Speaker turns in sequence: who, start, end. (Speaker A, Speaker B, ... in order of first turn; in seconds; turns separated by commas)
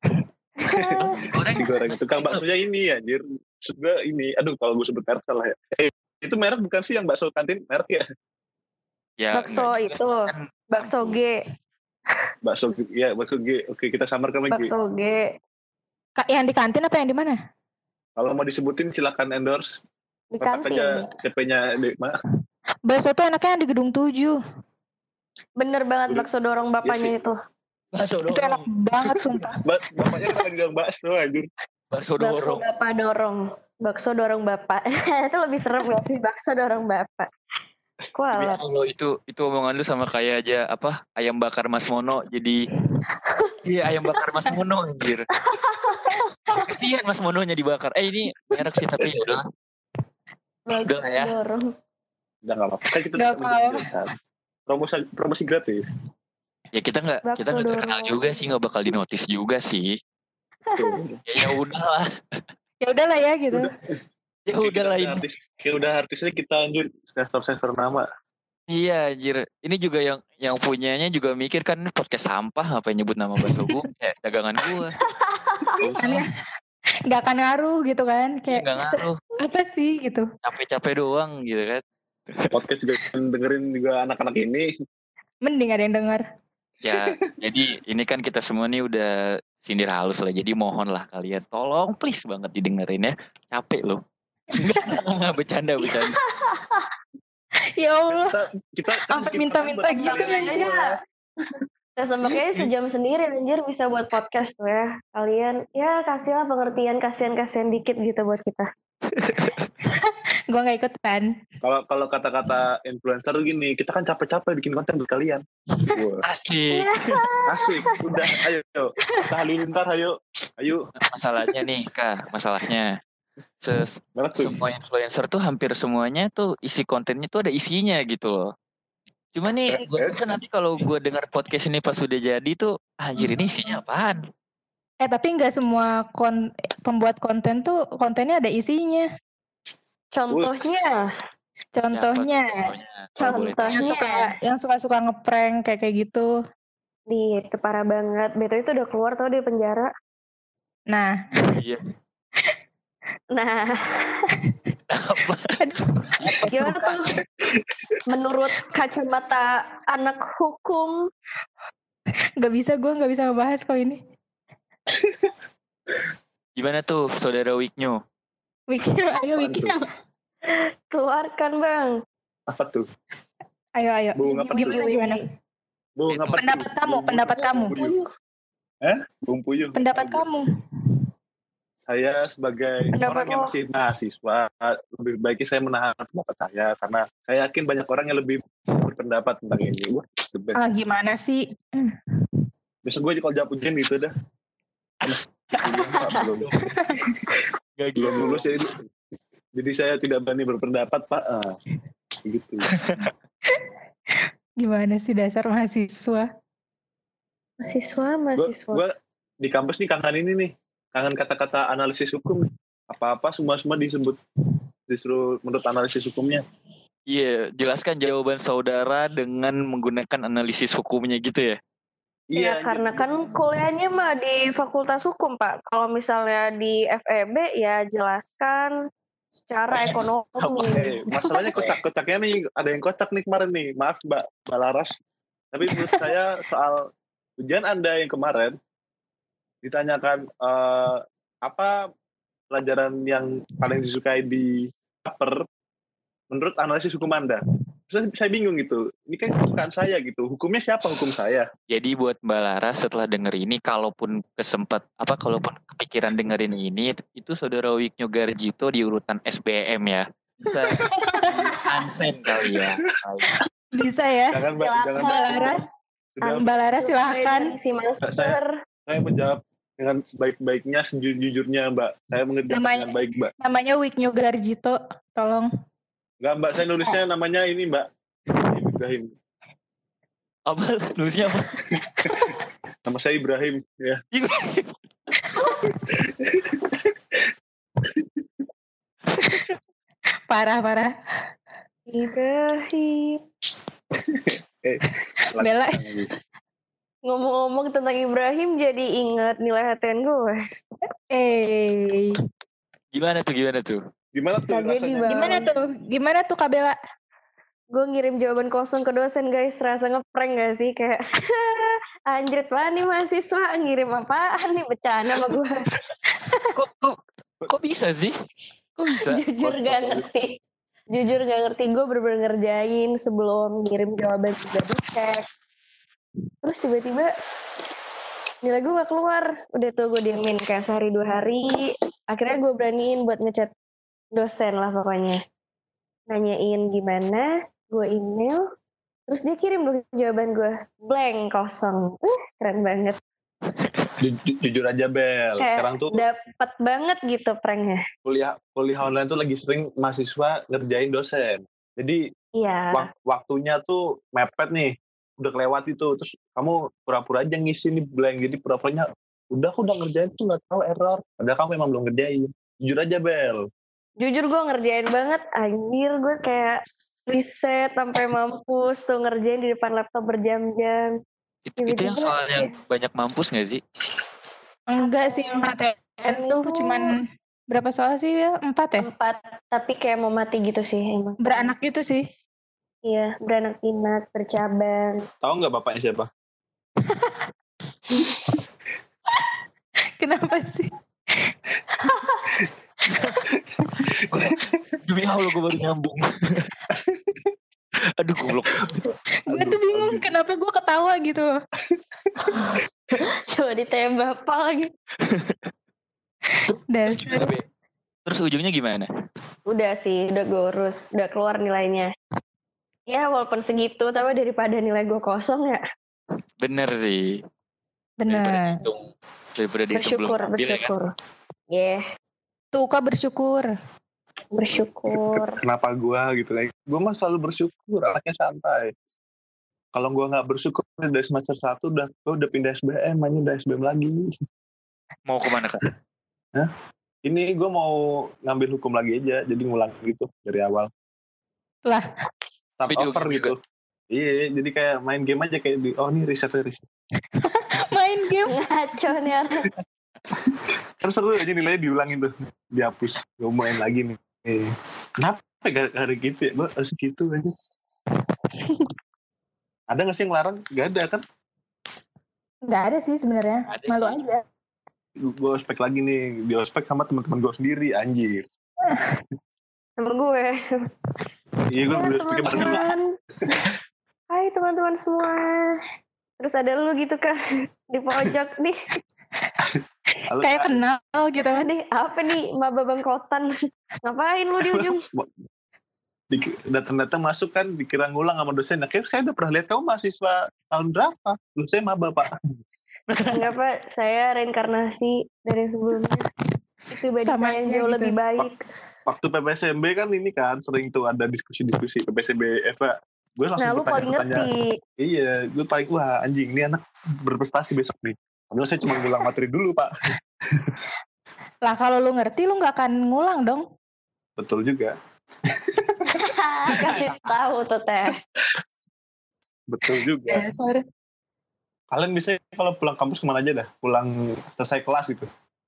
Speaker A: 0.6-1.2, Speaker B: 1.0-2.4, Speaker C: 1.1-8.1, Speaker B: 9.2-11.2, Speaker A: 9.3-11.4, Speaker C: 12.4-14.7, Speaker A: 14.5-15.3, Speaker D: 16.2-17.4, Speaker C: 18.2-19.8, Speaker A: 20.3-21.1, Speaker C: 20.4-22.1, Speaker D: 22.9-24.4, Speaker A: 25.6-27.4, Speaker C: 26.8-27.1, Speaker B: 27.9-29.3, Speaker D: 28.3-29.6, Speaker C: 29.6-31.5, Speaker B: 31.9-32.6, Speaker A: 32.2-37.3, Speaker A: 38.1-38.6, Speaker B: 38.3-42.6, Speaker A: 43.3-43.5, Speaker B: 43.6-45.3, Speaker A: 45.4-46.7, Speaker B: 46.6-49.5, Speaker A: 50.7-51.7, Speaker B: 50.8-51.3, Speaker C: 52.5-54.1, Speaker D: 53.1-53.8, Speaker C: 54.7-55.8, Speaker B: 56.7-60.0, Speaker A: 57.2-58.2, Speaker C: 60.8-61.2, Speaker B: 61.3-62.1, Speaker D: 62.8-63.7, Speaker B: 64.5-65.2, Speaker C: 64.6-68.1, Speaker B: 68.7-75.0, Speaker A: 75.3-75.8, Speaker B: 75.8-76.3, Speaker D: 76.0-76.3, Speaker D: 77.1-80.3, Speaker B: 78.5-79.2, Speaker B: 80.4-81.8, Speaker C: 82.5-84.7, Speaker D: 85.5-86.2, Speaker B: 86.8-94.0, Speaker B: 94.5-96.2, Speaker D: 97.8-98.4, Speaker C: 98.1-101.0, Speaker D: 99.1-100.7, Speaker A: 99.9-100.9, Speaker A: 102.0-108.7, Speaker B: 109.1-109.7, Speaker D: 109.9-111.3, Speaker C: 111.6-116.2, Speaker B: 116.2-117.2, Speaker A: 116.7-118.1, Speaker C: 117.5-120.9, Speaker B: 121.0-123.0, Speaker B: 123.6-128.5, Speaker C: 124.2-124.6, Speaker B: 129.3-134.2, Speaker C: 129.7-130.4, Speaker D: 135.0-139.1, Speaker A: 140.1-141.1, Speaker C: 140.3-141.0, Speaker D: 141.8-142.7, Speaker B: 141.9-143.8, Speaker A: 143.2-144.3, Speaker D: 143.8-146.3, Speaker A: 147.1-149.9, Speaker D: 150.9-151.6, Speaker B: 151.5-151.8, Speaker A: 153.3-154.3, Speaker B: 154.9-155.6, Speaker D: 155.6-156.9, Speaker B: 156.2-156.7, Speaker A: 156.4-157.1, Speaker A: 158.1-161.0, Speaker D: 162.4-164.0, Speaker C: 164.9-165.3, Speaker B: 166.6-168.0, Speaker D: 168.7-169.9, Speaker C: 169.4-169.8, Speaker A: 170.5-171.9, Speaker C: 172.5-172.9, Speaker D: 173.8-175.2, Speaker C: 174.2-174.9, Speaker A: 174.2-175.3, Speaker C: 176.0-177.9, Speaker B: 176.1-176.5, Speaker D: 176.4-177.8, Speaker A: 177.4-178.1, Speaker C: 178.8-180.3, Speaker D: 179.7-180.5, Speaker C: 181.8-190.6, Speaker A: 183.0-183.5, Speaker D: 190.6-192.0, Speaker C: 192.8-194.1, Speaker B: 195.0-196.6, Speaker C: 195.1-197.3, Speaker D: 196.6-197.0, Speaker B: 197.8-198.6, Speaker C: 198.0-198.9, Speaker C: 199.6-201.6, Speaker C: 202.2-202.7, Speaker B: 202.7-203.1, Speaker D: 204.6-206.3, Speaker A: 207.6-208.8, Speaker C: 208.4-214.2, Speaker C: 214.9-216.4, Speaker B: 217.1-221.6, Speaker C: 222.3-223.1, Speaker A: 222.4-228.7, Speaker A: 229.4-230.8, Speaker B: 229.8-230.7, Speaker C: 230.7-234.9, Speaker C: 235.5-236.9, Speaker D: 235.7-236.1, Speaker C: 237.4-238.6, Speaker C: 239.6-241.8, Speaker C: 242.5-245.4, Speaker C: 246.3-251.5, Speaker B: 251.7-263.4, Speaker D: 260.8-261.6, Speaker D: 263.7-264.4, Speaker C: 264.3-265.5, Speaker A: 264.6-265.6, Speaker D: 265.0-265.6, Speaker C: 266.2-266.5, Speaker A: 266.2-268.5, Speaker D: 266.3-267.5, Speaker C: 268.0-273.3, Speaker D: 272.5-275.5, Speaker C: 276.2-277.9, Speaker C: 278.5-279.1, Speaker B: 280.5-281.6, Speaker C: 281.7-282.3, Speaker D: 282.0-282.3, Speaker C: 282.9-284.0, Speaker B: 284.1-284.7, Speaker D: 285.3-285.7, Speaker C: 285.7-287.2, Speaker C: 287.8-288.2, Speaker B: 289.1-289.5, Speaker D: 290.3-290.9, Speaker A: 291.9-293.2, Speaker C: 293.9-296.1, Speaker D: 295.4-295.8, Speaker A: 297.1-300.4, Speaker D: 301.1-302.2, Speaker B: 302.9-303.8, Speaker C: 304.1-305.5, Speaker A: 304.5-305.5, Speaker D: 305.1-306.8, Speaker A: 307.7-315.7, Speaker D: 316.1-316.5, Speaker B: 316.5-318.1, Speaker B: 318.8-319.2, Speaker A: 318.9-320.4, Speaker C: 319.4-320.1, Speaker A: 320.9-325.2, Speaker A: 326.4-327.1, Speaker A: 328.4-333.5, Speaker A: 334.1-335.2, Speaker A: 336.1-338.4, Speaker A: 339.1-343.0, Speaker C: 344.0-346.0, Speaker A: 345.4-347.8, Speaker C: 348.1-352.0, Speaker A: 352.4-352.9, Speaker C: 352.7-363.5, Speaker A: 364.0-370.9, Speaker B: 371.5-373.6, Speaker A: 371.6-372.5, Speaker D: 374.7-378.9, Speaker A: 374.8-375.4, Speaker A: 376.0-376.9, Speaker A: 378.8-381.5, Speaker D: 381.2-382.1, Speaker A: 382.9-385.1, Speaker C: 385.2-386.1, Speaker D: 386.8-387.2, Speaker D: 390.0-390.7, Speaker C: 393.3-394.6, Speaker B: 394.1-396.5, Speaker C: 396.7-397.2, Speaker B: 398.0-398.8, Speaker C: 398.9-400.1, Speaker D: 399.3-401.3, Speaker C: 401.7-402.4, Speaker A: 403.0-404.7, Speaker B: 405.0-405.4, Speaker D: 406.5-407.3, Speaker B: 406.5-407.4, Speaker B: 408.1-408.9, Speaker A: 409.5-411.9, Speaker A: 412.9-415.6, Speaker B: 416.4-417.2, Speaker D: 418.0-418.7, Speaker B: 418.1-420.7, Speaker A: 419.7-420.9, Speaker A: 421.5-421.8, Speaker D: 422.5-423.5, Speaker A: 424.4-425.4, Speaker C: 424.9-428.7, Speaker C: 429.7-434.1, Speaker B: 435.1-435.7, Speaker C: 437.1-440.7, Speaker C: 442.6-446.6, Speaker B: 442.7-443.3, Speaker D: 447.2-448.4, Speaker A: 448.3-449.5, Speaker C: 450.1-457.3, Speaker D: 458.4-458.7, Speaker C: 459.7-461.0, Speaker D: 462.5-464.2, Speaker B: 463.5-464.0, Speaker C: 465.0-468.2, Speaker D: 468.6-469.0, Speaker A: 469.8-470.4, Speaker C: 471.5-472.7, Speaker A: 471.7-472.9, Speaker B: 472.3-472.6, Speaker A: 474.1-475.6, Speaker A: 476.2-477.2, Speaker A: 477.7-478.6, Speaker C: 479.4-480.6, Speaker D: 480.1-481.5, Speaker A: 481.2-483.3, Speaker A: 483.8-484.9, Speaker C: 484.5-485.1, Speaker C: 486.1-492.2, Speaker B: 492.9-493.2, Speaker A: 493.1-496.1, Speaker A: 496.7-498.4, Speaker D: 497.0-498.0, Speaker C: 498.9-504.3, Speaker A: 503.4-504.5, Speaker C: 504.8-510.6, Speaker D: 511.4-513.5, Speaker C: 514.2-514.8, Speaker C: 515.3-516.7, Speaker A: 516.0-518.0, Speaker C: 519.5-520.3, Speaker D: 520.1-520.6, Speaker C: 521.7-525.1